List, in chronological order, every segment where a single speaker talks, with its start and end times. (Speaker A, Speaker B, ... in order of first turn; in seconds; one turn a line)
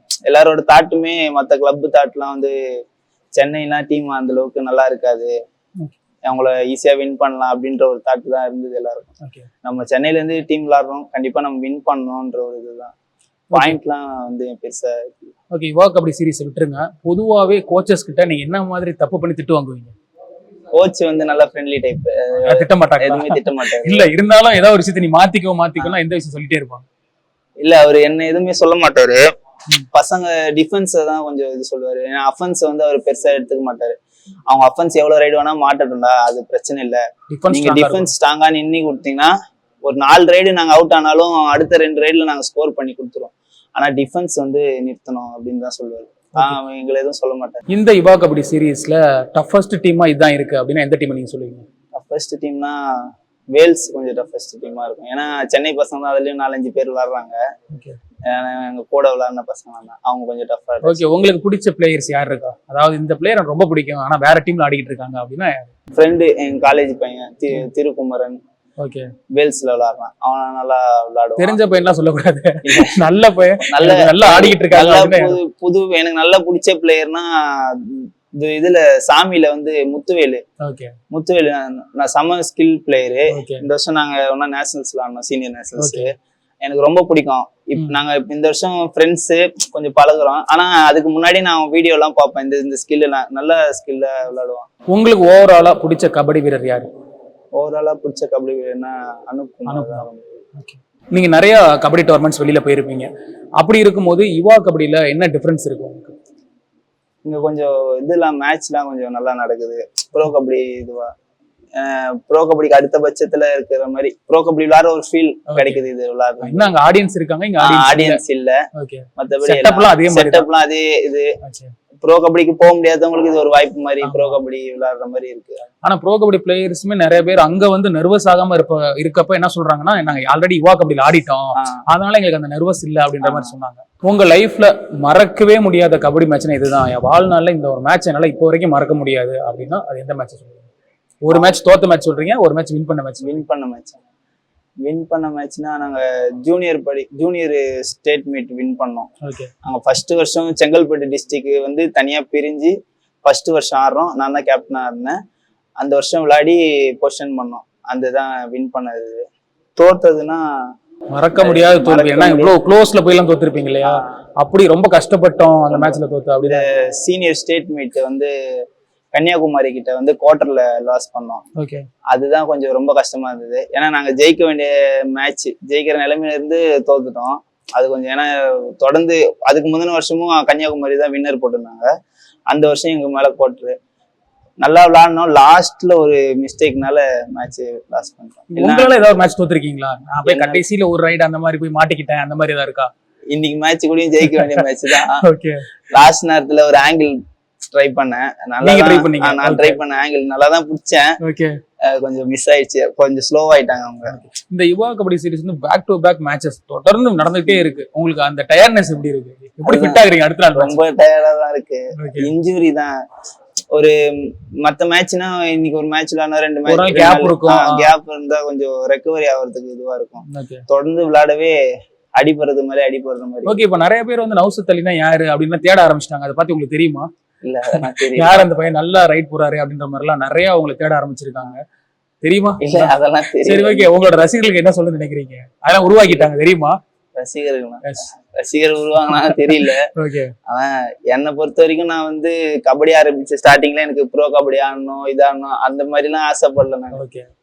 Speaker A: 0.2-2.5
Speaker A: 3.4-5.3
Speaker A: 6.2-12.9
Speaker B: 13.5-13.8
Speaker A: 13.5-15.3
Speaker B: 15.5-19.9
Speaker A: 20.7-24.1
Speaker B: 22.4-26.8
Speaker A: 27.6-29.3
Speaker A: 29.9-33.9
Speaker A: 34.5-39.3
Speaker B: 37.3-38.1
Speaker A: 39.8-47.6
Speaker B: 47.7-51.6
Speaker A: 51.9-57.4
Speaker B: 57.7-58.0
Speaker A: 58.3-61.0
Speaker B: 60.8-65.7
Speaker A: 66.0-68.4
Speaker B: 68.8-69.1
Speaker A: 69.3-71.6
Speaker B: 71.4-75.4
Speaker A: 72.6-73.0
Speaker A: 73.6-80.4
Speaker B: 80.6-80.9
Speaker A: 81.1-94.7
Speaker B: 83.3-83.6
Speaker B: 85.8-86.1
Speaker B: 94.9-96.9
Speaker A: 97.6-100.3
Speaker B: 99.7-100.0
Speaker B: 100.5-106.2
Speaker A: 107.2-111.1
Speaker A: 111.8-116.7
Speaker B: 115.5-115.8
Speaker B: 116.4-118.2
Speaker A: 117.6-118.6
Speaker B: 118.8-120.5
Speaker A: 119.2-121.3
Speaker B: 121.4-121.7
Speaker A: 122.0-125.6
Speaker B: 124.0-124.4
Speaker B: 125.8-140.7
Speaker A: 131.6-131.8
Speaker A: 133.2-133.5
Speaker B: 141.2-143.4
Speaker A: 141.3-141.6
Speaker A: 143.2-144.0
Speaker A: 144.8-149.1
Speaker B: 149.2-149.5
Speaker A: 149.6-155.2
Speaker A: 155.8-159.2
Speaker A: 159.8-160.4
Speaker B: 161.1-166.6
Speaker A: 161.4-162.5
Speaker A: 163.8-164.1
Speaker A: 165.7-168.3
Speaker A: 169.1-171.4
Speaker B: 171.6-171.8
Speaker A: 172.1-181.9
Speaker A: 182.5-183.8
Speaker A: 184.6-189.1
Speaker B: 188.5-192.9
Speaker A: 190.2-190.6
Speaker A: 193.3-195.2
Speaker B: 194.2-195.6
Speaker A: 195.9-197.2
Speaker A: 197.7-201.2
Speaker B: 198.6-199.8
Speaker B: 201.2-201.6
Speaker A: 201.8-204.2
Speaker B: 204.1-210.8
Speaker A: 209.6-210.0
Speaker A: 210.5-212.9
Speaker B: 212.0-212.3
Speaker A: 213.7-221.6
Speaker B: 216.7-217.9
Speaker B: 220.2-220.6
Speaker A: 222.2-223.6
Speaker B: 223.4-227.1
Speaker A: 227.4-228.5
Speaker B: 227.7-231.6
Speaker B: 232.2-236.8
Speaker A: 232.6-233.9
Speaker A: 237.2-239.9
Speaker B: 239.2-240.3
Speaker A: 240.5-247.0
Speaker B: 246.9-247.3